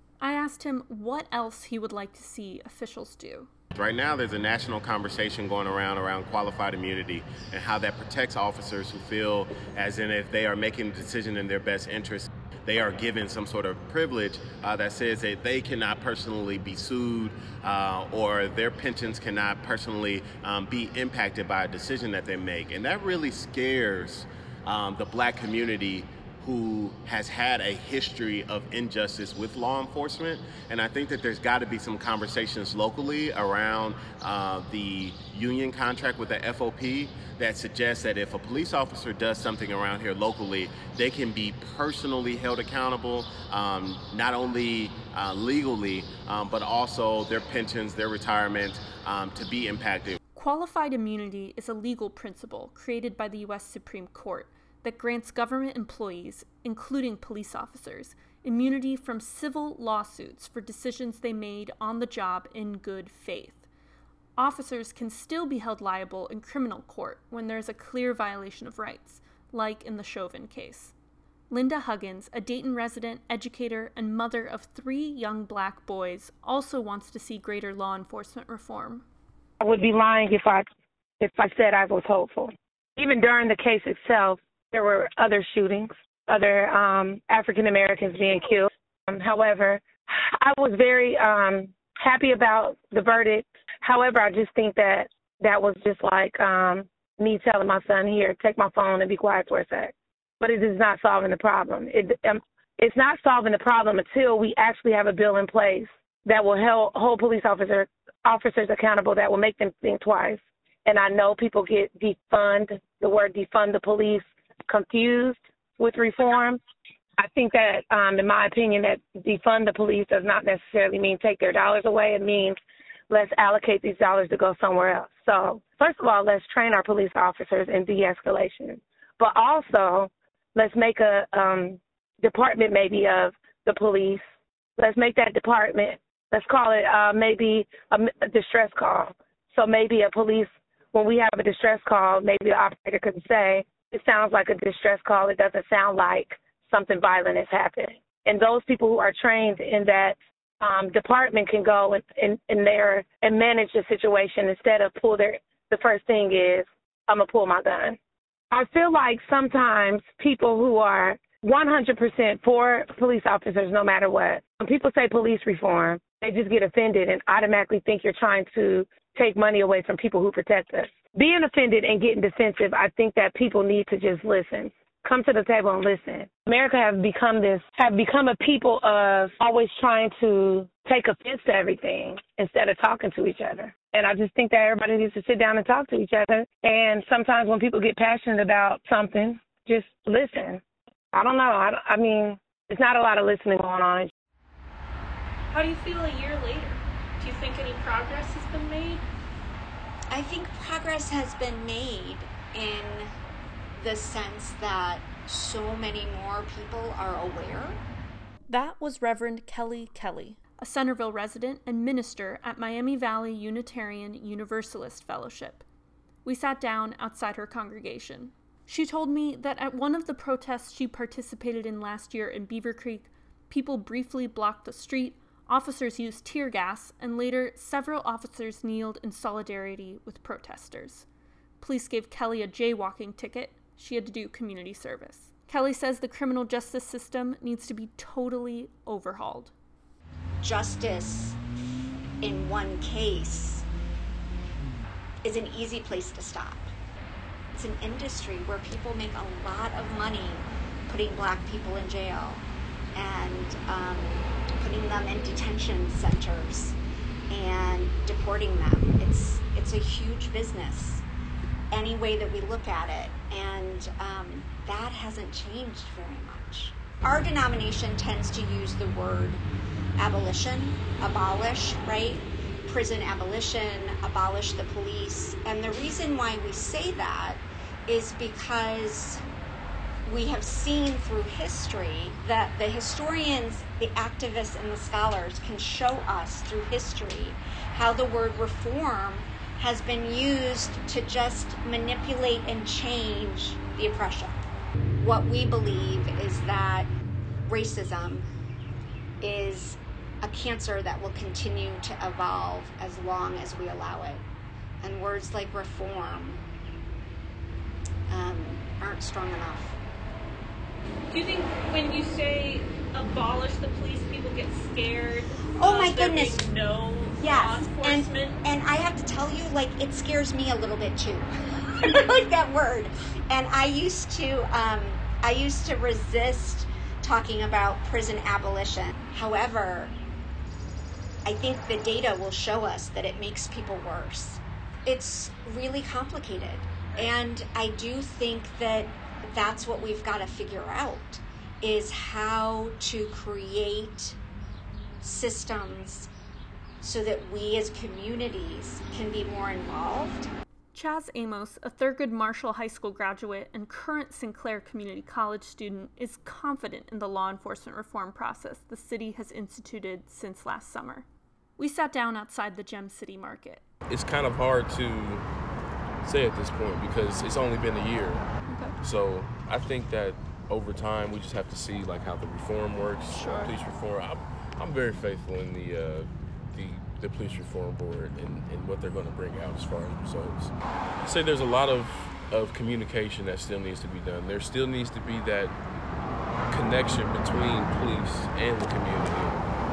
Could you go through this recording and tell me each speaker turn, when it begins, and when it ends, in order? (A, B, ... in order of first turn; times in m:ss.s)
0:00.2-0:03.5 A
0:03.8-0:50.2 B
0:50.4-1:03.7 A
1:04.4-1:10.9 A
1:11.5-1:19.1 A
1:19.6-1:20.7 C
1:21.2-1:56.6 C
1:57.2-2:02.6 C
2:03.1-2:14.2 C
2:14.8-2:38.0 C
2:38.5-3:10.6 C
3:11.1-3:14.1 C
3:15.5-3:19.0 A
3:20.1-3:23.1 D
3:23.8-3:27.8 D
3:28.5-3:35.6 A
3:36.2-3:51.1 A
3:51.6-3:59.5 A
4:00.4-4:01.4 D
4:02.2-4:03.6 D
4:05.2-4:06.7 D
4:07.5-4:12.4 D
4:13.0-4:16.8 D
4:17.3-4:21.0 D
4:21.7-4:29.4 D
4:30.0-4:39.2 D
4:40.1-4:54.4 D
4:55.0-4:56.9 D
4:57.5-4:58.3 D
4:59.2-5:04.2 D
5:04.8-5:06.4 D
5:08.1-5:09.8 D
5:11.1-5:18.4 A
5:15.6-5:16.4 D
5:17.2-5:21.3 D
5:21.8-5:30.0 D
5:31.3-5:44.2 D
5:45.0-5:46.1 D
5:46.8-5:50.3 D
5:50.7-6:01.1 A
6:01.6-6:03.6 A
6:03.9-6:05.2 E
6:06.0-6:08.3 E
6:08.5-6:08.7 A
6:08.8-6:20.5 E
6:13.1-6:13.5 A
6:21.0-6:25.6 E
6:26.5-6:29.5 E